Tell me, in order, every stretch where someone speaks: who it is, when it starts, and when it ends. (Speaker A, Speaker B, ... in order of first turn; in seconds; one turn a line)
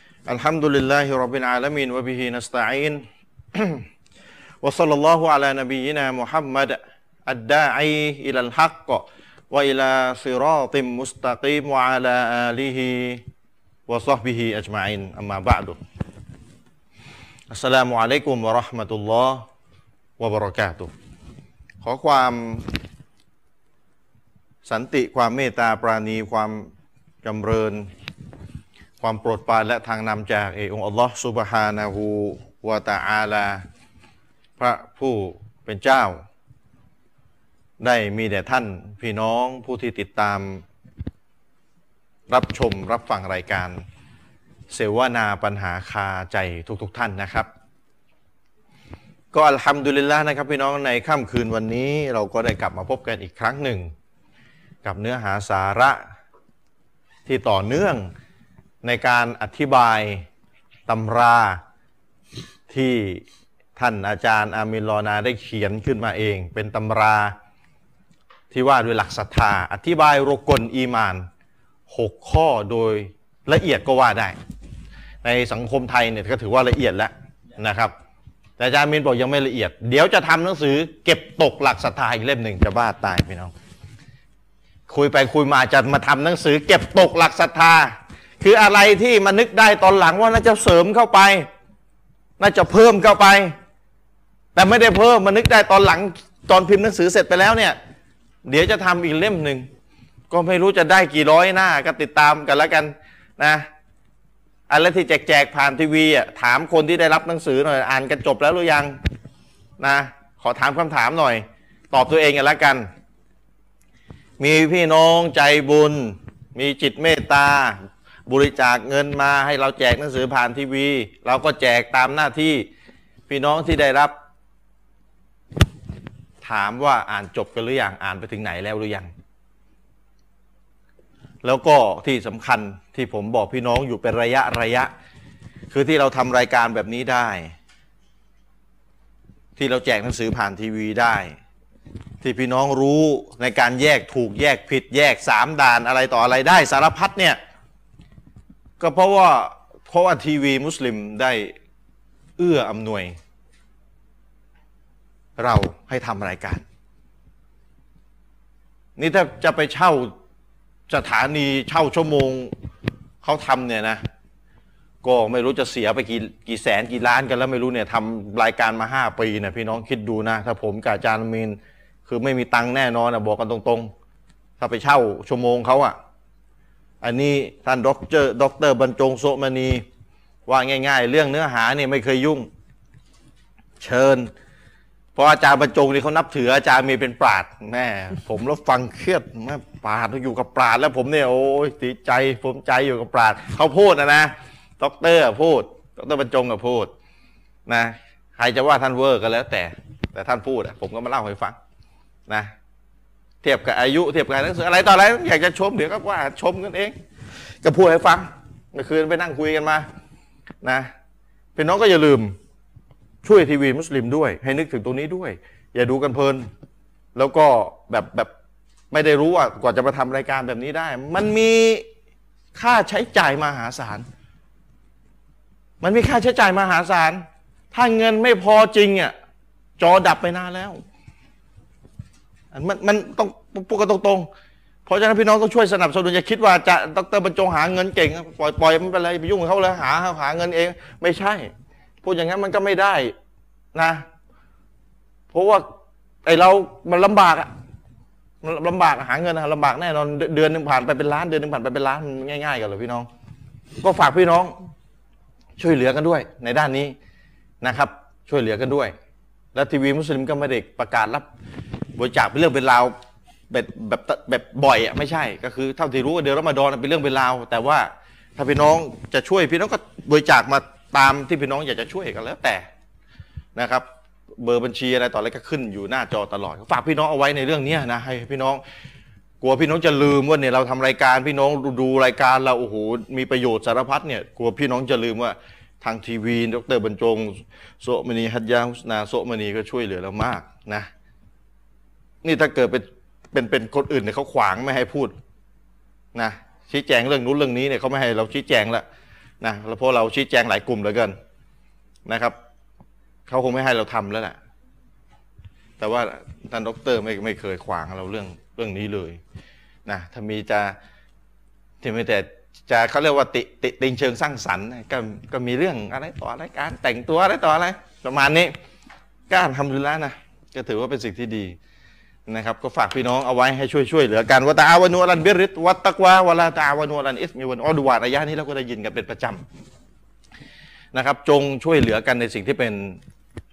Speaker A: 0.2-3.8
Speaker A: 4.6-13.2
Speaker A: 13.9-15.8
Speaker A: 17.5-19.4
Speaker A: 20.2-20.9
Speaker A: 21.8-22.7
Speaker A: 24.6-26.7
Speaker A: 27.2-27.9
Speaker A: 29.0-33.6
Speaker A: 34.6-36.2
Speaker A: 37.8-40.6
Speaker A: 42.3-43.8
Speaker A: 44.7-47.5
Speaker A: 49.3-53.9
Speaker A: 54.8-56.0
Speaker A: 57.2-58.1
Speaker A: 58.8-60.2
Speaker A: 60.9-61.6
Speaker A: 62.7-63.2
Speaker A: 63.8-67.3
Speaker A: 68.5-71.3
Speaker A: 71.9-74.3
Speaker A: 75.2-77.9
Speaker A: 78.6-83.5
Speaker A: 84.9-91.5
Speaker A: 92.4-93.5
Speaker A: 94.5-97.8
Speaker A: 98.4-99.7
Speaker A: 100.3-103.7
Speaker A: 104.7-109.0
Speaker A: 109.8-112.9
Speaker A: 114.4-122.7
Speaker A: 123.3-124.1
Speaker A: 126.4-129.1
Speaker A: 131.4-134.9
Speaker A: 135.7-137.5
Speaker A: 139.6-141.3
Speaker A: 142.2-147.4
Speaker A: 148.8-151.5
Speaker A: 152.4-153.1
Speaker A: 155.4-156.6
Speaker A: 159.0-160.1
Speaker A: 160.9-162.5
Speaker A: 163.2-164.0
Speaker A: 165.0-173.9
Speaker A: 174.6-175.9
Speaker A: 177.0-179.8
Speaker A: 180.5-182.5
Speaker A: 183.8-184.3
Speaker A: 185.1-196.9
Speaker A: 197.7-201.6
Speaker A: 203.4-206.9
Speaker A: 207.6-209.8
Speaker A: 210.6-210.9
Speaker A: 211.6-212.3
Speaker A: 213.2-216.5
Speaker A: 217.1-218.3
Speaker A: 218.9-221.8
Speaker A: 222.5-224.0
Speaker A: 225.8-229.1
Speaker A: 229.8-230.8
Speaker A: 232.5-234.3
Speaker A: 234.8-241.5
Speaker A: 242.0-243.1
Speaker A: 243.7-244.0
Speaker A: 245.3-245.7
Speaker A: 246.2-247.5
Speaker A: 248.4-253.1
Speaker A: 253.8-254.5
Speaker A: 255.6-256.9
Speaker A: 257.6-258.9
Speaker A: 259.5-261.2
Speaker A: 261.9-262.9
Speaker A: 263.5-272.6
Speaker A: 273.5-273.8
Speaker A: 274.4-278.6
Speaker A: 279.4-290.9
Speaker A: 292.2-295.1
Speaker A: 296.1-298.8
Speaker A: 299.4-301.1
Speaker A: 302.1-302.4
Speaker A: 303.3-304.4
Speaker A: 305.8-309.2
Speaker A: 309.9-310.8
Speaker A: 311.8-318.5
Speaker A: 319.3-321.6
Speaker A: 322.3-329.4
Speaker A: 330.9-333.0